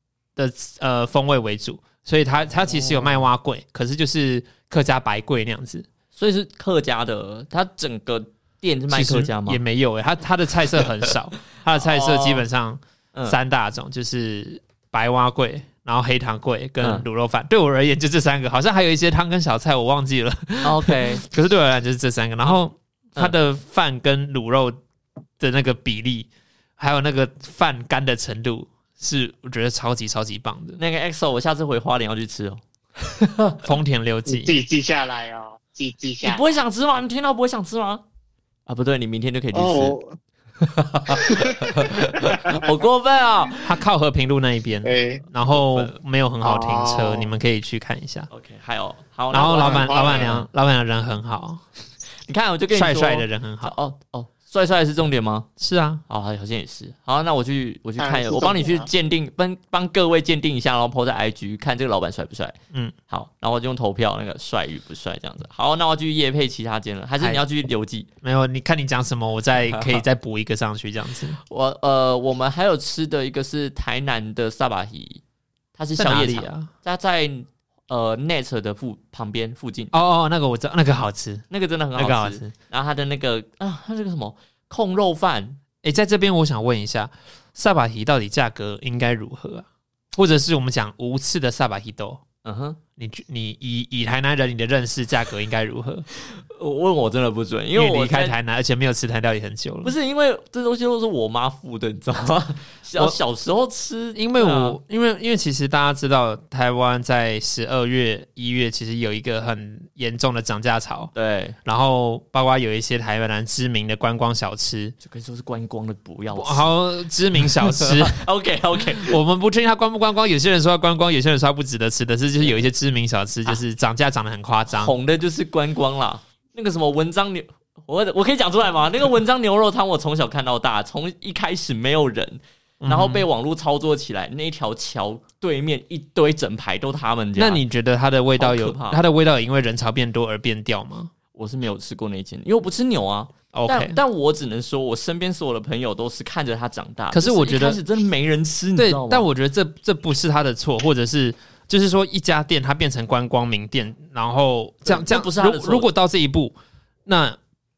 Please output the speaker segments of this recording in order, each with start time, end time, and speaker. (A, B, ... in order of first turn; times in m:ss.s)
0:00.4-0:05.9 A
0:02.7-0:03.2 B
0:06.1-0:09.6 B
0:08.9-0:24.8 A
0:11.8-0:12.4 B
0:20.6-0:21.2 B
0:25.4-0:30.8 A
0:30.8-0:33.6 B
0:33.6-0:34.5 A
0:34.3-0:36.5 C
0:36.2-0:38.0 B
0:38.6-0:40.0 B
0:39.5-0:40.2 C
0:40.6-0:43.6 B
0:41.1-0:42.7 C
0:43.6-0:48.3 A
0:44.8-0:45.2 C
0:45.5-0:46.0 B
0:46.4-0:47.3 C
0:48.3-0:50.4 B
0:49.3-0:51.6 A
0:49.4-0:50.4 C
0:52.3-0:55.5 B
0:52.7-0:53.7 A
0:55.6-0:56.0 A
0:56.1-1:02.6 B
0:58.0-0:58.9 C
1:03.1-1:08.1 B
1:08.2-1:11.4 A
1:09.7-1:10.0 B
1:11.4-1:15.2 B
1:15.8-1:19.9 B
1:16.0-1:16.7 A
1:19.9-1:22.5 A
1:21.5-1:25.6 B
1:25.8-1:32.2 A
1:32.4-1:32.8 B
1:33.0-1:36.0 A
1:36.2-1:38.4 B
1:37.7-1:39.9 A
1:39.8-1:44.8 B
1:44.1-1:51.1 A
1:51.1-1:51.6 B
1:51.6-1:54.9 A
1:55.0-1:56.7 B
1:56.3-1:58.2 A
1:57.5-1:59.2 B
1:58.8-2:04.9 A
2:04.7-2:17.6 B
2:12.8-2:13.2 A
2:17.4-2:21.1 A
2:18.4-2:19.0 B
2:21.3-2:29.2 B
2:23.5-2:24.0 A
2:27.1-2:27.8 A
2:28.8-2:37.4 A
2:34.8-2:35.9 B